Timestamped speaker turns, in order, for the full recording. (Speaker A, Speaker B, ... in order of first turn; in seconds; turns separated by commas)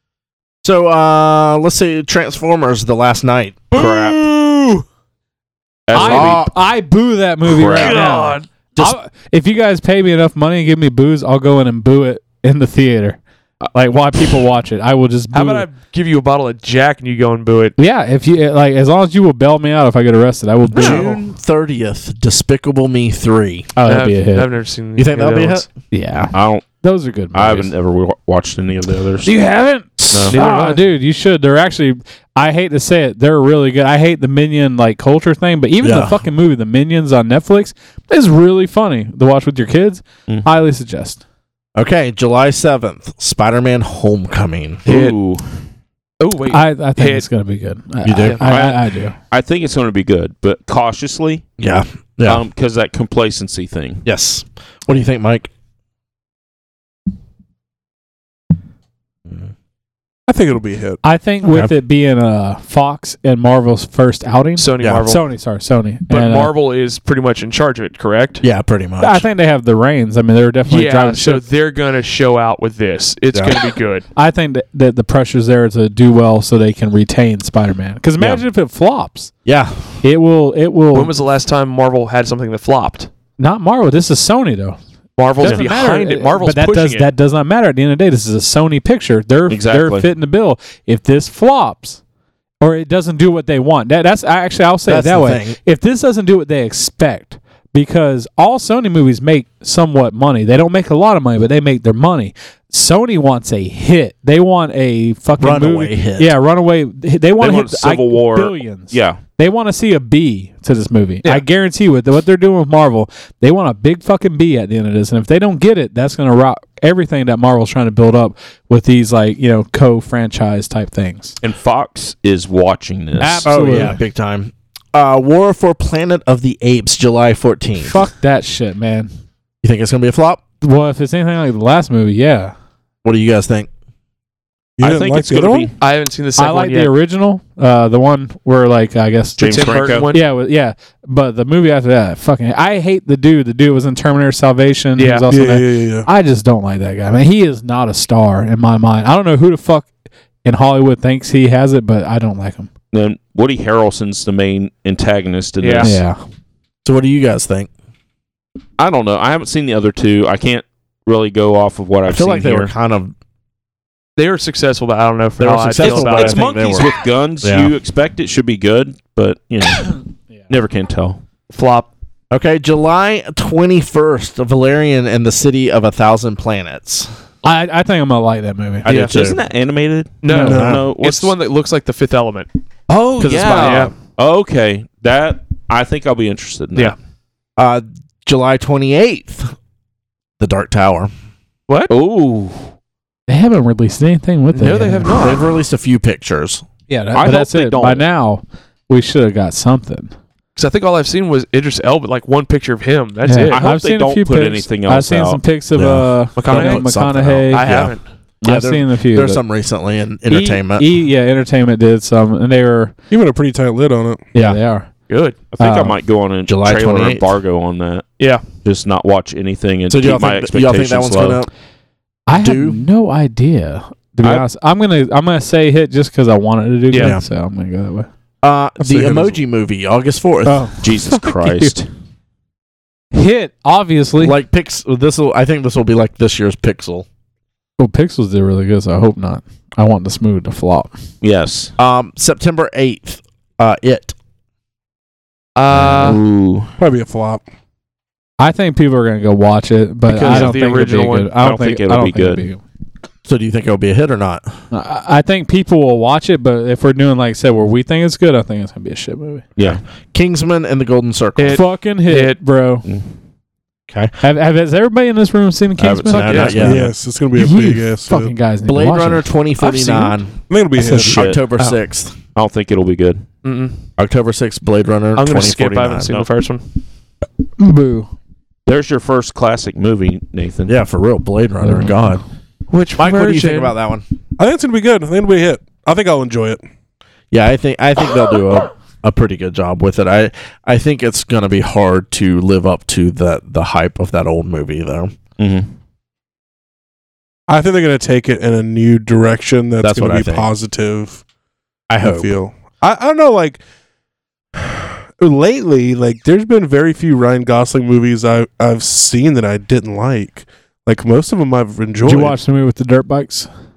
Speaker A: 0.6-3.7, Speaker B: 3.7-4.8, Speaker C: 3.7-4.2, Speaker C: 5.9-6.4, Speaker D: 5.9-13.2, Speaker A: 6.0-6.5, Speaker C: 7.5-8.1, Speaker B: 7.7-8.5, Speaker D: 13.7-15.7, Speaker B: 15.3-17.8, Speaker D: 17.8-21.2, Speaker A: 20.7-23.7, Speaker D: 23.8-24.5, Speaker B: 23.9-25.7, Speaker A: 25.0-25.7, Speaker D: 25.9-27.7, Speaker C: 26.3-26.7, Speaker C: 27.3-29.3, Speaker D: 29.2-41.2, Speaker A: 30.0-30.3, Speaker B: 30.3-30.8, Speaker A: 35.8-36.2, Speaker A: 41.8-44.9, Speaker C: 44.9-45.5, Speaker B: 44.9-45.2, Speaker B: 46.2-47.3, Speaker D: 46.5-49.1, Speaker A: 48.0-48.4, Speaker C: 48.4-51.5, Speaker A: 51.6-52.4, Speaker C: 52.3-54.0, Speaker A: 54.1-55.5, Speaker E: 60.3-61.0, Speaker D: 61.0-66.5, Speaker A: 61.5-61.7, Speaker B: 64.6-65.2, Speaker A: 64.8-65.1, Speaker B: 66.1-68.4, Speaker A: 68.4-69.3, Speaker D: 69.0-71.4, Speaker B: 70.7-74.0, Speaker D: 74.2-79.3, Speaker A: 79.5-79.9, Speaker D: 80.0-81.1, Speaker B: 80.9-83.1, Speaker D: 83.4-84.8, Speaker B: 85.2-87.1, Speaker D: 85.4-92.0, Speaker C: 89.5-90.1, Speaker D: 92.6-121.4, Speaker A: 94.9-95.6, Speaker A: 105.4-106.3, Speaker C: 107.4-109.2, Speaker C: 121.4-123.9, Speaker D: 123.2-124.0, Speaker A: 123.5-128.0, Speaker D: 127.8-129.1, Speaker A: 129.6-130.4, Speaker D: 130.6-132.5, Speaker A: 133.0-133.7, Speaker E: 134.8-135.7, Speaker C: 134.8-135.7, Speaker B: 135.8-136.9, Speaker D: 136.4-149.9, Speaker C: 139.4-140.1, Speaker B: 139.5-140.2, Speaker B: 145.0-145.3, Speaker E: 145.3-146.1, Speaker D: 150.4-152.7, Speaker C: 152.9-156.0, Speaker B: 155.6-155.9, Speaker D: 155.8-156.2, Speaker A: 156.8-157.7, Speaker C: 158.8-162.7, Speaker A: 162.1-163.1, Speaker B: 164.2-166.4, Speaker A: 165.4-167.7, Speaker C: 165.8-171.2, Speaker B: 171.5-171.9, Speaker A: 172.3-177.1, Speaker D: 177.4-178.9, Speaker A: 178.8-179.4, Speaker B: 178.9-179.2, Speaker C: 178.9-181.3, Speaker B: 180.2-182.5, Speaker E: 180.4-180.8, Speaker A: 180.5-180.9, Speaker C: 182.9-187.0, Speaker A: 183.2-183.9, Speaker B: 183.5-183.9, Speaker A: 187.6-189.6, Speaker A: 190.4-191.1, Speaker C: 191.9-192.7, Speaker D: 193.3-195.3, Speaker B: 194.5-195.4, Speaker A: 195.1-196.7, Speaker D: 196.9-200.1, Speaker C: 197.2-198.0, Speaker B: 200.6-203.7, Speaker D: 203.3-207.7, Speaker C: 203.5-205.4, Speaker A: 205.8-210.9, Speaker B: 206.4-206.9, Speaker B: 207.5-208.1, Speaker D: 208.4-209.4, Speaker D: 210.3-212.9, Speaker E: 213.1-214.2, Speaker A: 214.3-214.6, Speaker D: 214.3-214.9, Speaker B: 215.1-215.4, Speaker C: 215.5-218.1, Speaker D: 215.6-216.0, Speaker A: 216.5-217.3, Speaker B: 218.2-218.4, Speaker C: 218.6-221.4, Speaker A: 219.9-221.5, Speaker D: 222.3-228.1, Speaker A: 222.3-222.8, Speaker B: 226.9-227.2, Speaker A: 227.0-227.2, Speaker A: 228.4-230.7, Speaker E: 228.8-229.4, Speaker D: 230.5-231.8, Speaker C: 230.8-231.9, Speaker D: 233.1-234.4, Speaker A: 234.2-237.1, Speaker D: 237.8-240.9, Speaker C: 241.2-241.7, Speaker A: 241.8-244.2, Speaker B: 245.6-246.2, Speaker C: 245.9-246.7, Speaker E: 246.8-247.4, Speaker D: 248.4-252.6, Speaker B: 250.1-251.3, Speaker C: 251.4-252.4, Speaker A: 253.2-254.5, Speaker D: 254.7-259.4, Speaker A: 259.6-261.6, Speaker B: 261.4-262.4, Speaker D: 261.5-262.9, Speaker A: 263.9-264.1, Speaker D: 264.2-266.8, Speaker C: 265.8-266.9, Speaker A: 266.0-266.9, Speaker B: 266.2-266.6, Speaker E: 266.6-268.3, Speaker D: 267.4-270.2, Speaker A: 268.7-272.2, Speaker E: 270.5-271.3, Speaker C: 271.0-271.4, Speaker C: 272.4-273.2, Speaker B: 273.4-273.9, Speaker A: 274.0-276.2, Speaker B: 275.2-276.6, Speaker D: 277.6-278.1, Speaker C: 278.7-280.7, Speaker A: 280.7-282.2, Speaker B: 282.7-283.7, Speaker A: 283.0-284.1, Speaker E: 284.4-286.6, Speaker A: 287.3-295.2, Speaker C: 295.4-295.7, Speaker E: 297.5-301.2, Speaker A: 299.8-300.5, Speaker A: 301.9-302.4, Speaker E: 302.0-303.6, Speaker E: 304.6-312.4, Speaker D: 312.0-313.5